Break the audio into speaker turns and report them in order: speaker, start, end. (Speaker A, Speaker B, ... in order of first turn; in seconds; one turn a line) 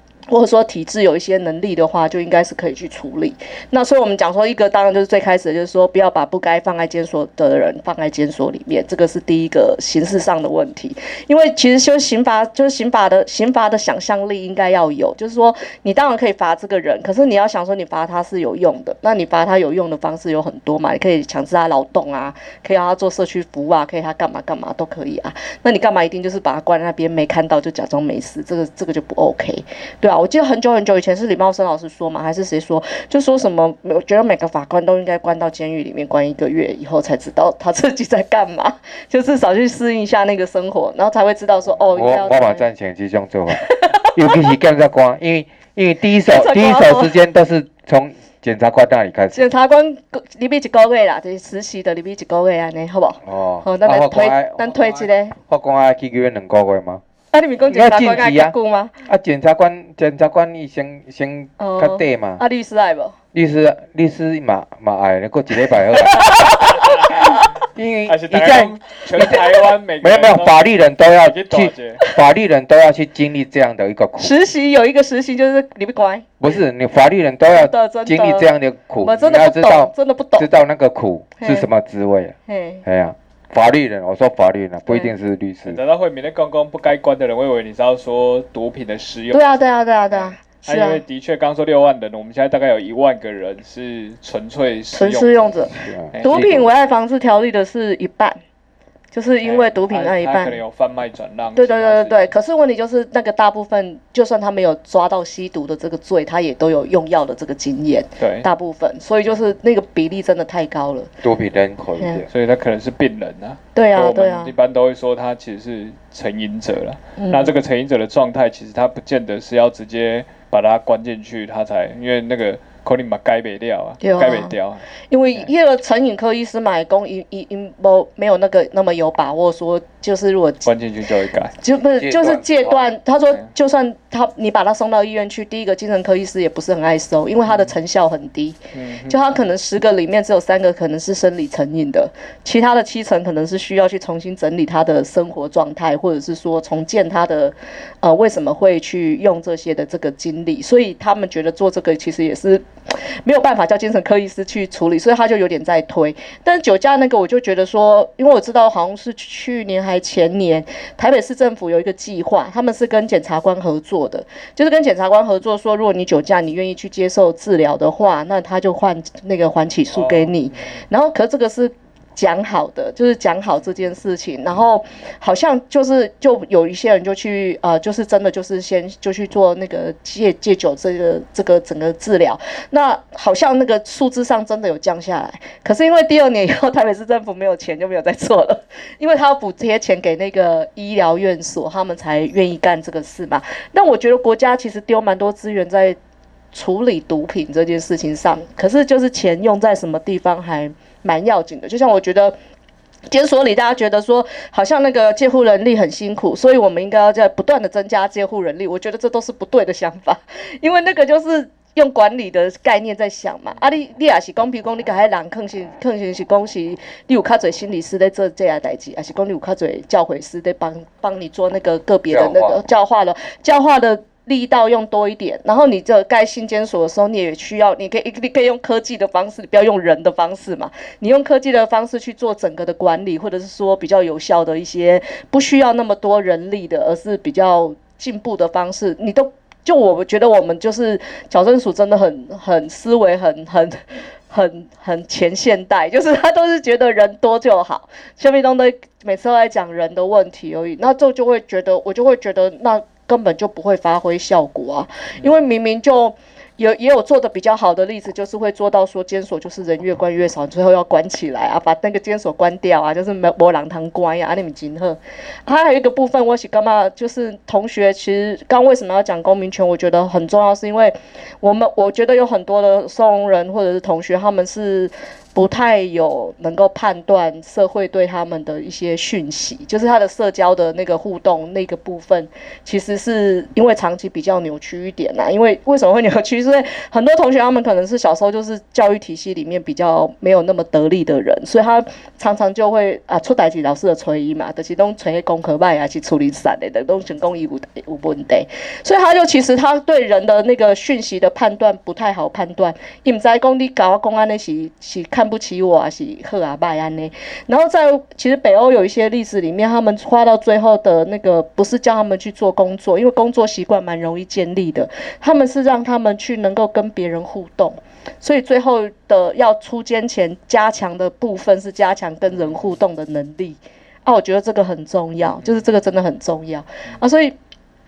Speaker A: 0.3-42.6
Speaker B: 41.9-49.4
Speaker A: 43.5-44.2
Speaker A: 46.3-47.1
Speaker A: 49.4-55.4
Speaker B: 53.2-57.0
Speaker A: 57.3-58.9
Speaker B: 57.7-62.4
Speaker A: 61.6-63.2
Speaker B: 63.3-66.3
Speaker A: 65.7-67.5
Speaker C: 66.8-67.2
Speaker B: 67.7-69.5
Speaker C: 68.1-70.6
Speaker B: 70.0-74.3
Speaker C: 71.2-72.0
Speaker A: 74.2-76.3
Speaker B: 76.4-85.8
Speaker A: 77.5-78.5
Speaker A: 79.0-80.5
Speaker A: 81.4-81.7
Speaker A: 82.5-82.8
Speaker C: 85.7-95.6
Speaker A: 89.3-91.0
Speaker A: 94.9-98.4
Speaker B: 95.7-96.7
Speaker C: 96.1-96.4
Speaker A: 99.1-100.6
Speaker C: 99.4-102.3
Speaker A: 101.6-111.1
Speaker C: 108.2-108.5
Speaker B: 111.2-112.3
Speaker A: 112.0-112.2
Speaker C: 112.3-125.5
Speaker A: 113.7-114.5
Speaker A: 117.2-117.5
Speaker A: 124.0-124.5
Speaker A: 125.1-130.7
Speaker C: 130.7-131.5
Speaker A: 131.6-196.0
Speaker B: 132.0-132.8
Speaker C: 137.5-137.7
Speaker C: 138.7-139.3
Speaker C: 169.9-170.3
Speaker A: 196.5-202.4
Speaker A: 203.1-243.8
Speaker B: 222.1-222.6
Speaker A: 244.3-327.4